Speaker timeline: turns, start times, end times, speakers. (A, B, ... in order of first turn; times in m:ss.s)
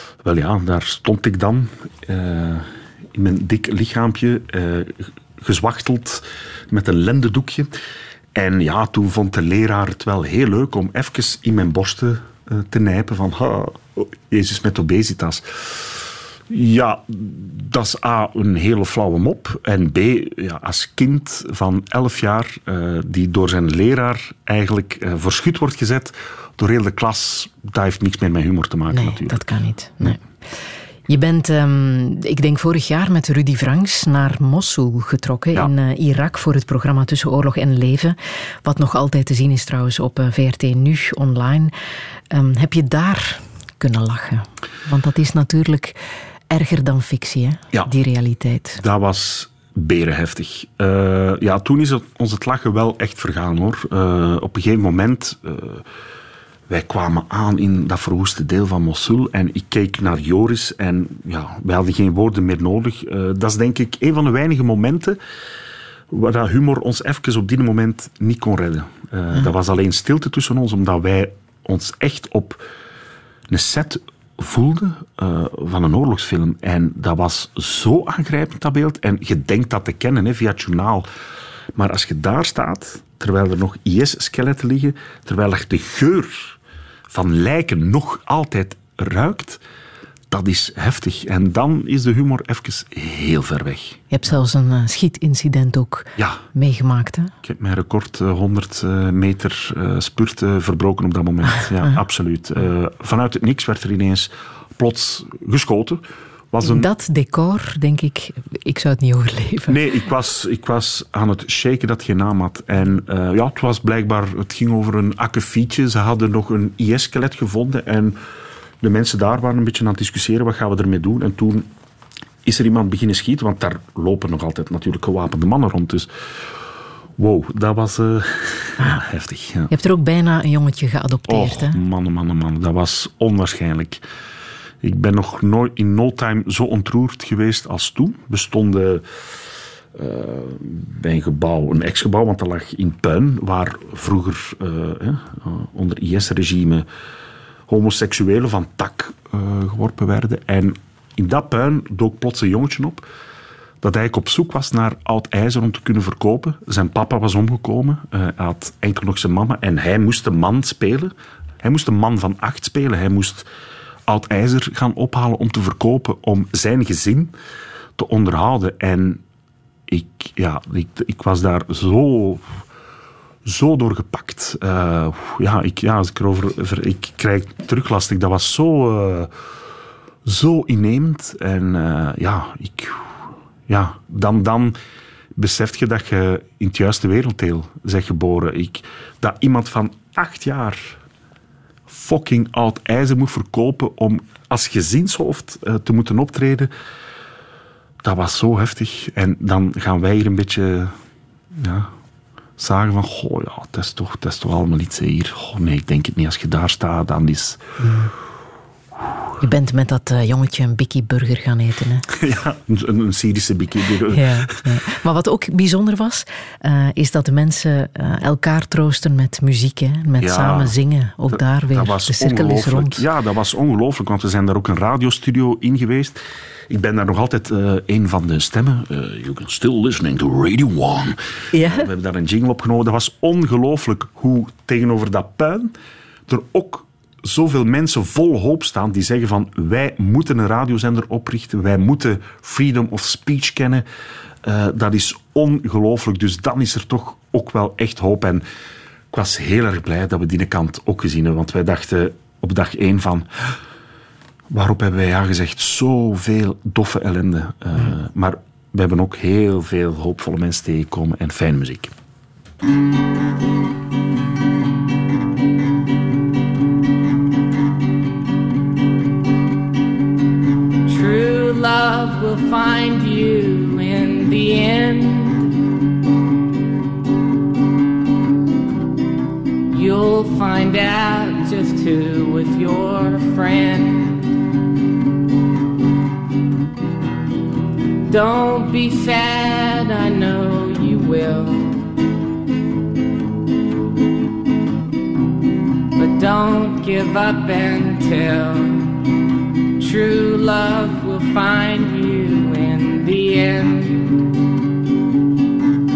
0:00.2-0:07.7 A
0:08.3-0:29.4 A
0:28.9-0:30.2 B
0:31.1-0:41.7 B
0:42.3-0:46.0 B
0:46.5-0:48.8 B
0:48.8-0:55.8 A
0:56.7-1:05.2 A
1:06.1-1:12.6 A
1:13.5-1:21.1 A
1:21.7-1:26.6 A
1:27.1-1:29.6 A
1:30.3-1:34.1 A
1:34.1-1:37.3 B
1:36.2-1:36.4 A
1:37.4-1:46.9 A
1:46.6-1:49.8 B
1:49.7-1:58.2 A
1:58.8-2:01.7 A
2:02.4-2:06.1 A
2:07.2-2:09.7 A
2:09.7-2:11.8 B
2:11.3-2:14.0 A
2:14.8-2:19.0 A
2:19.9-2:26.9 A
2:27.7-2:33.1 A
2:33.8-2:43.5 A
2:44.1-2:47.3 A
2:48.0-2:49.2 A
2:49.9-2:52.5 A
2:53.4-2:59.3 A
3:00.2-3:04.8 A
3:05.3-3:11.0 A
3:11.9-3:16.7 A
3:18.0-3:20.9 A
3:21.5-3:21.9 A
3:22.6-3:27.6 A
3:27.8-3:28.1 B
3:29.4-3:32.1 B
3:32.1-3:34.6 A
3:34.1-3:43.0 B
3:40.2-3:40.7 A
3:41.3-3:55.7 A
3:51.5-3:51.9 B
3:56.3-4:03.9 A
4:04.4-4:08.4 A
4:09.1-4:13.5 A
4:14.5-4:21.9 A
4:30.9-4:35.5 C
4:39.7-4:44.1 C
4:48.1-4:51.7 C
4:56.0-4:58.8 C
4:59.8-5:04.0 C